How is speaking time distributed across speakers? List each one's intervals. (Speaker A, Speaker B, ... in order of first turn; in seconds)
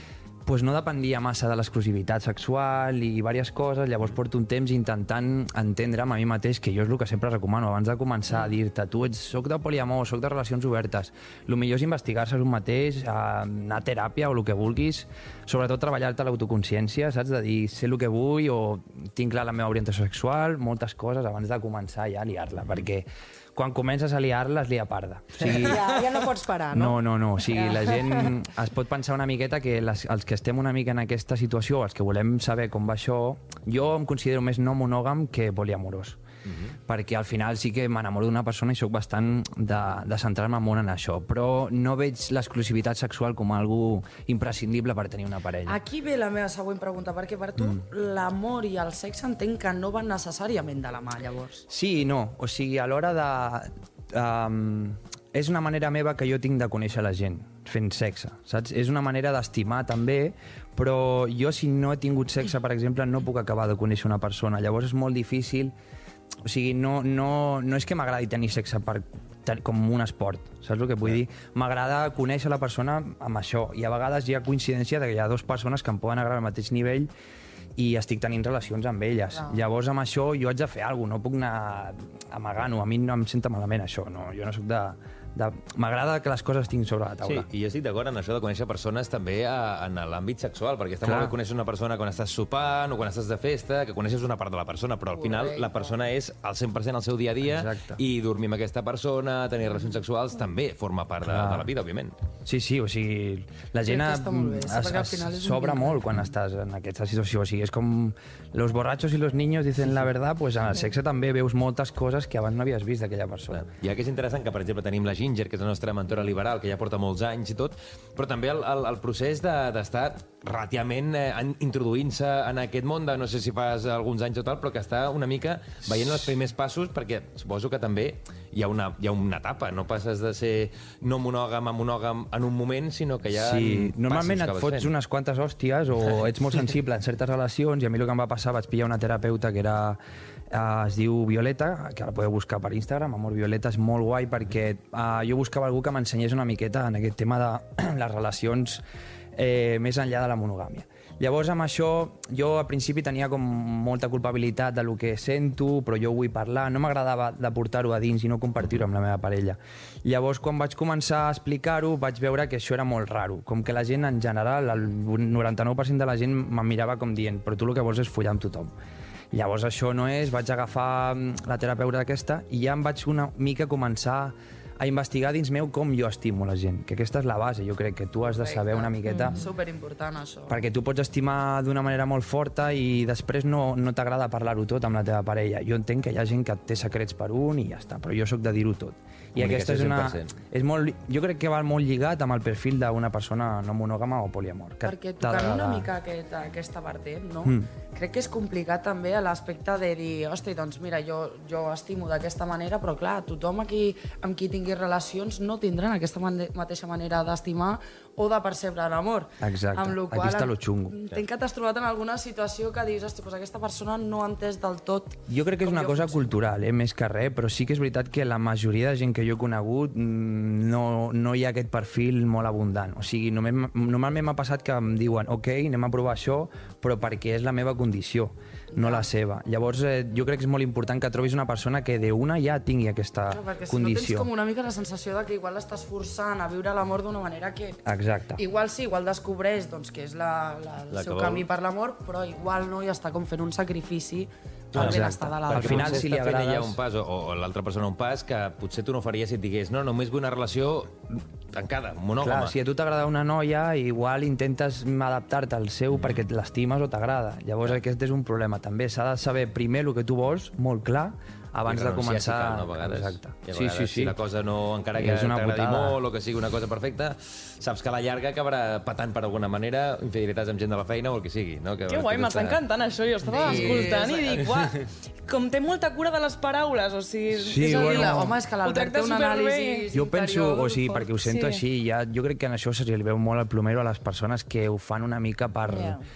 Speaker A: 0.5-25.8, 26.7-36.2, 36.9-45.8, 51.7-65.7, 66.4-77.1, 77.8-87.5, 91.0-91.3, 97.5-98.0, 101.2-101.7, 102.5-113.6, 133.3-140.0, 140.5-148.8, 149.4-168.7, 169.3-179.4, 180.5-195.9, 209.4-211.0, 215.3-234.3, 237.8-238.4, 244.8-246.8, 252.2-264.2, 265.0-266.0, 277.3-278.3, 279.9-286.0
Speaker B: 25.5-28.3, 179.1-179.3, 285.7-286.0
Speaker C: 45.6-51.6, 79.3-79.6, 95.2-96.0, 103.9-106.0, 178.2-180.6, 194.8-216.3, 228.7-229.1, 233.3-237.8, 238.4-246.1, 273.3-274.4, 277.6-281.1
Speaker D: 87.2-102.1, 113.5-134.9, 189.3-190.3, 240.9-241.5, 244.7-252.5, 255.9-256.2, 261.7-272.6
Speaker E: 271.9-279.9, 281.2-281.6